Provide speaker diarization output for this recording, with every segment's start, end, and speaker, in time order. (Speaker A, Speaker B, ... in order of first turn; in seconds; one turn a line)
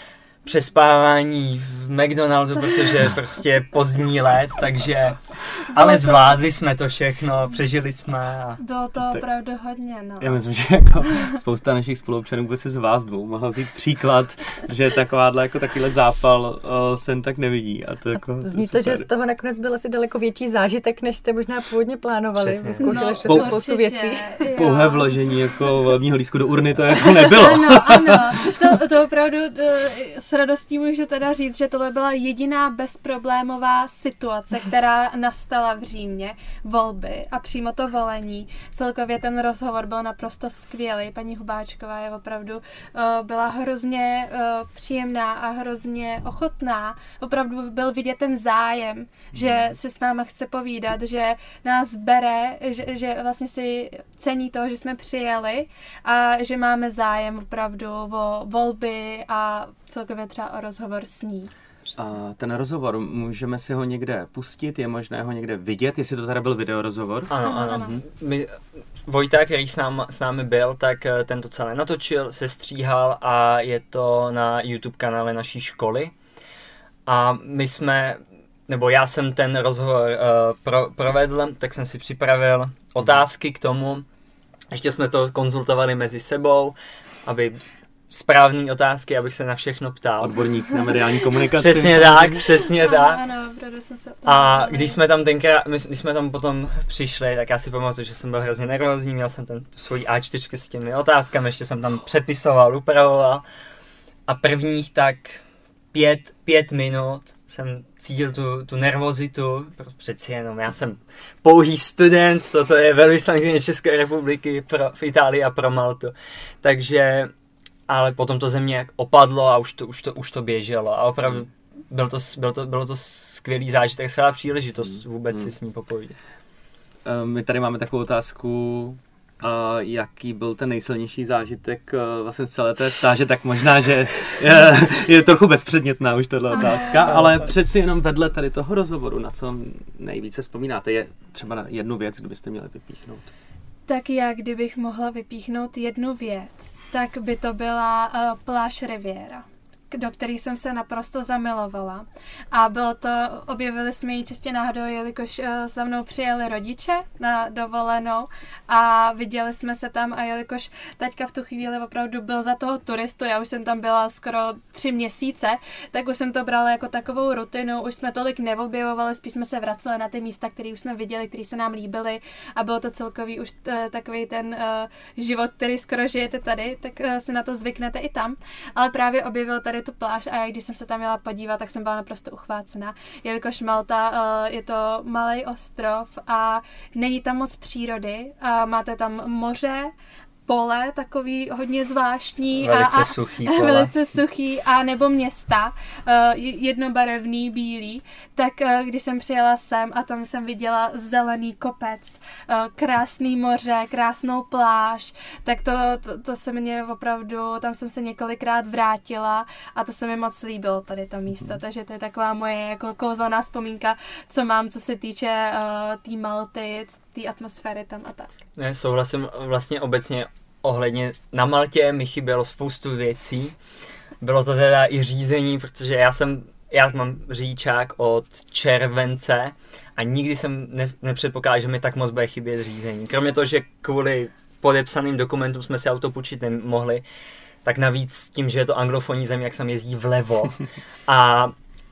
Speaker A: 0.4-8.6
Speaker B: 8.6-10.4
Speaker C: 10.2-19.1
Speaker D: 18.4-24.5
Speaker A: 22.4-23.0
Speaker B: 22.8-25.1
Speaker C: 23.2-23.6
Speaker C: 24.6-28.5
Speaker B: 27.2-61.5
Speaker C: 49.4-49.7
Speaker C: 62.0-67.3
Speaker A: 67.3-76.1
Speaker B: 67.4-68.0
Speaker A: 77.1-84.0
Speaker A: 84.7-90.3
Speaker C: 90.2-92.4
Speaker A: 91.6-93.2
Speaker B: 92.8-95.0
Speaker A: 94.3-103.4
Speaker A: 104.3-105.4
Speaker A: 105.9-117.3
Speaker A: 117.9-126.2
Speaker C: 127.0-143.3
Speaker B: 136.5-137.0
Speaker B: 143.9-189.9
Speaker B: 190.5-218.3
Speaker A: 192.6-193.9
Speaker A: 218.6-223.6
Speaker A: 224.2-237.0
Speaker A: 237.7-241.5